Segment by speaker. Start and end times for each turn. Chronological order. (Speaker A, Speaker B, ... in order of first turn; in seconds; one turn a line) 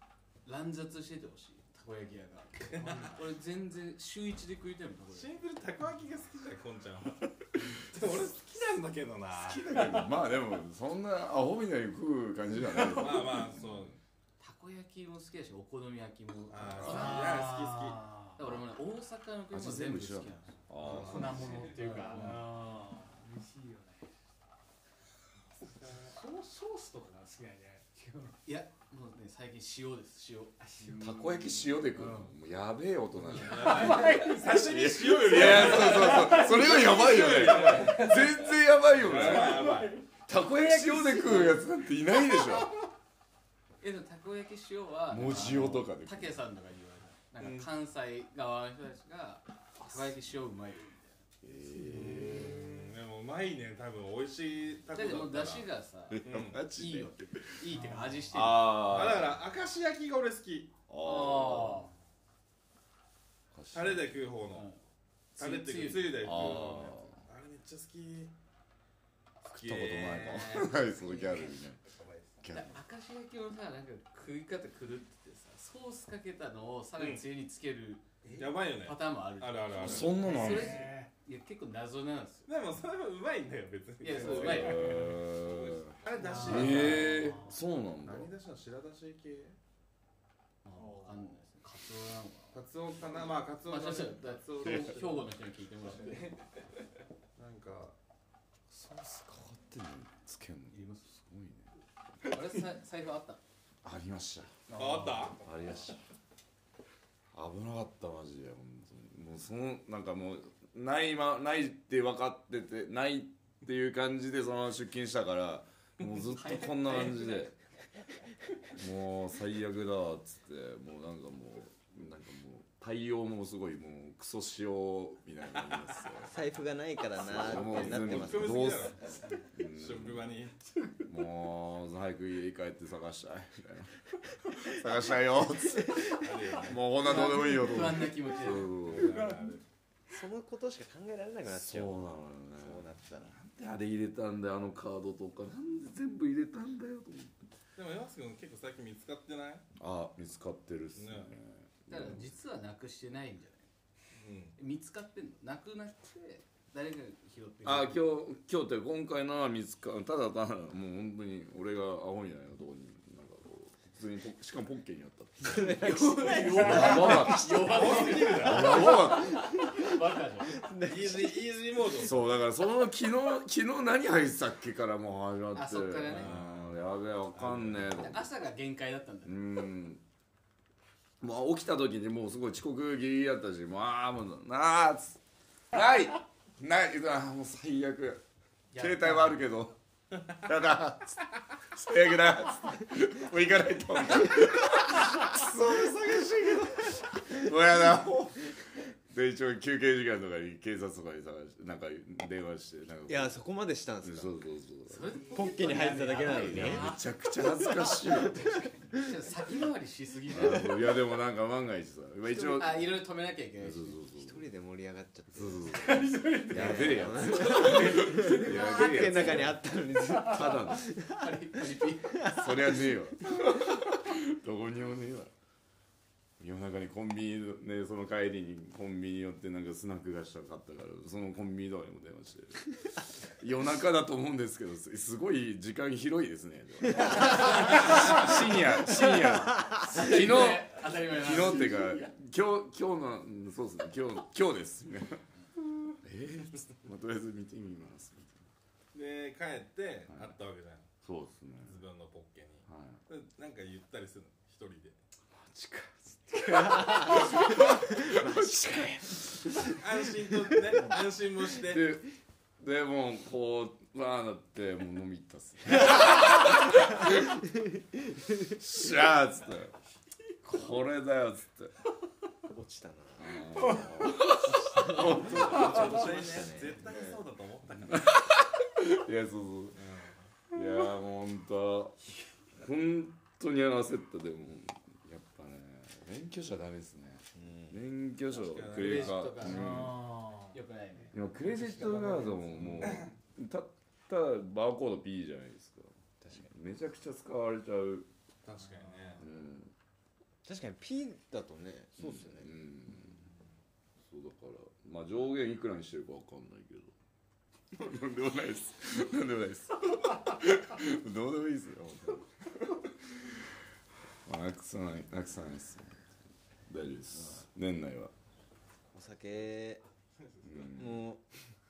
Speaker A: 0.4-5.4
Speaker B: 2.7-3.1
Speaker C: 2.8-3.2
Speaker B: 5.1-7.3
Speaker B: 7.9-9.8
Speaker D: 9.3-13.9
Speaker B: 12.7-14.0
Speaker A: 14.4-17.5
Speaker B: 16.5-18.1
Speaker D: 16.7-17.1
Speaker C: 16.9-18.3
Speaker A: 18.4-22.4
Speaker D: 19.5-21.5
Speaker B: 20.8-22.4
Speaker C: 20.9-24.1
Speaker B: 25.7-26.1
Speaker C: 26.0-28.4
Speaker A: 28.4-31.0
Speaker C: 30.6-31.5
Speaker D: 31.0-42.7
Speaker A: 31.9-32.3
Speaker B: 33.3-40.0
Speaker C: 33.3-34.8
Speaker A: 33.6-34.0
Speaker C: 35.8-38.3
Speaker C: 39.3-40.0
Speaker C: 41.0-41.4
Speaker A: 43.8-51.2
Speaker D: 45.1-46.4
Speaker B: 47.4-47.7
Speaker D: 49.8-50.2
Speaker D: 51.4-52.6
Speaker B: 51.8-55.7
Speaker A: 54.9-58.9
Speaker D: 56.1-57.7
Speaker B: 56.2-56.6
Speaker C: 57.8-58.2
Speaker D: 58.3-59.4
Speaker B: 58.7-60.8
Speaker D: 60.9-61.9
Speaker A: 61.0-61.9
Speaker D: 63.5-64.2
Speaker B: 63.7-64.7
Speaker A: 64.5-64.8
Speaker A: 65.3-66.4
Speaker B: 65.4-68.3
Speaker D: 66.2-67.2
Speaker B: 69.5-70.7
Speaker D: 69.5-71.8
Speaker A: 70.1-71.6
Speaker D: 72.4-72.8
Speaker A: 72.5-82.5
Speaker B: 77.0-77.2
Speaker B: 78.3-80.5
Speaker D: 79.8-80.9
Speaker C: 80.2-81.1
Speaker B: 82.5-87.2
Speaker A: 84.0-85.1
Speaker D: 84.2-88.3
Speaker C: 86.2-87.5
Speaker A: 86.5-87.1
Speaker B: 88.0-89.5
Speaker A: 90.6-92.6
Speaker B: 92.5-95.3
Speaker A: 93.6-96.4
Speaker B: 97.3-97.9
Speaker D: 98.7-101.7
Speaker A: 100.7-101.1
Speaker A: 102.3-103.4
Speaker D: 103.8-106.0
Speaker B: 104.7-105.4
Speaker D: 107.3-117.5
Speaker A: 116.2-117.5
Speaker D: 118.7-126.3
Speaker E: 126.2-128.8
Speaker D: 127.2-130.3
Speaker B: 127.3-130.6
Speaker C: 130.7-131.1
Speaker D: 131.0-139.3
Speaker B: 136.0-136.9
Speaker A: 137.0-138.9
Speaker B: 138.5-139.6
Speaker C: 139.0-139.6
Speaker E: 140.1-143.4
Speaker D: 141.4-147.5
Speaker B: 147.8-149.6
Speaker D: 149.8-152.3
Speaker B: 150.9-151.3
Speaker A: 151.9-153.7
Speaker B: 154.1-154.6
Speaker A: 154.6-158.0
Speaker D: 157.6-169.6
Speaker E: 165.4-167.3
Speaker A: 165.8-170.7
Speaker B: 167.7-168.8
Speaker E: 169.4-169.8
Speaker E: 170.5-171.4
Speaker B: 170.8-172.2
Speaker D: 171.9-178.3
Speaker A: 175.5-176.4
Speaker B: 176.1-176.8
Speaker B: 177.3-177.9
Speaker A: 177.9-179.4
Speaker D: 179.2-180.0
Speaker D: 181.2-185.2
Speaker D: 185.7-188.2
Speaker A: 188.7-189.4
Speaker D: 188.7-203.4
Speaker E: 203.1-204.4
Speaker D: 204.0-208.7
Speaker A: 204.9-207.0
Speaker E: 205.3-206.9
Speaker A: 208.9-210.9
Speaker D: 210.3-213.0
Speaker A: 212.4-214.0
Speaker D: 213.6-214.4
Speaker E: 214.1-222.9
Speaker D: 215.3-219.6
Speaker C: 215.8-219.4
Speaker C: 220.0-220.6
Speaker D: 220.2-220.9
Speaker A: 221.1-222.4
Speaker D: 222.2-225.3
Speaker D: 226.4-245.2
Speaker A: 237.6-237.9
Speaker A: 239.8-242.0
Speaker D: 246.0-248.5
Speaker B: 248.9-250.9
Speaker D: 251.0-251.8
Speaker B: 251.6-255.0
Speaker D: 252.7-253.0
Speaker D: 255.3-259.5
Speaker E: 256.4-259.8
Speaker B: 259.6-261.9
Speaker D: 261.6-262.1
Speaker D: 262.6-267.4
Speaker D: 268.4-269.7
Speaker D: 270.4-271.7
Speaker E: 272.5-277.2
Speaker D: 273.2-276.0
Speaker B: 274.9-278.1
Speaker D: 277.9-279.8
Speaker B: 279.7-280.2
Speaker D: 280.5-290.1
Speaker E: 287.4-287.8
Speaker B: 288.3-289.3
Speaker A: 288.7-289.9
Speaker C: 289.4-290.5
Speaker A: 290.5-291.1
Speaker D: 291.1-298.1
Speaker B: 292.8-293.1
Speaker E: 296.2-296.5
Speaker B: 298.4-299.2
Speaker D: 299.2-299.7
Speaker E: 300.4-302.5
Speaker D: 302.0-303.2
Speaker D: 304.0-306.9
Speaker D: 307.7-313.4
Speaker D: 314.2-316.1
Speaker D: 316.7-318.1
Speaker E: 318.9-319.8
Speaker B: 320.2-320.6
Speaker D: 320.4-321.0
Speaker E: 320.7-321.2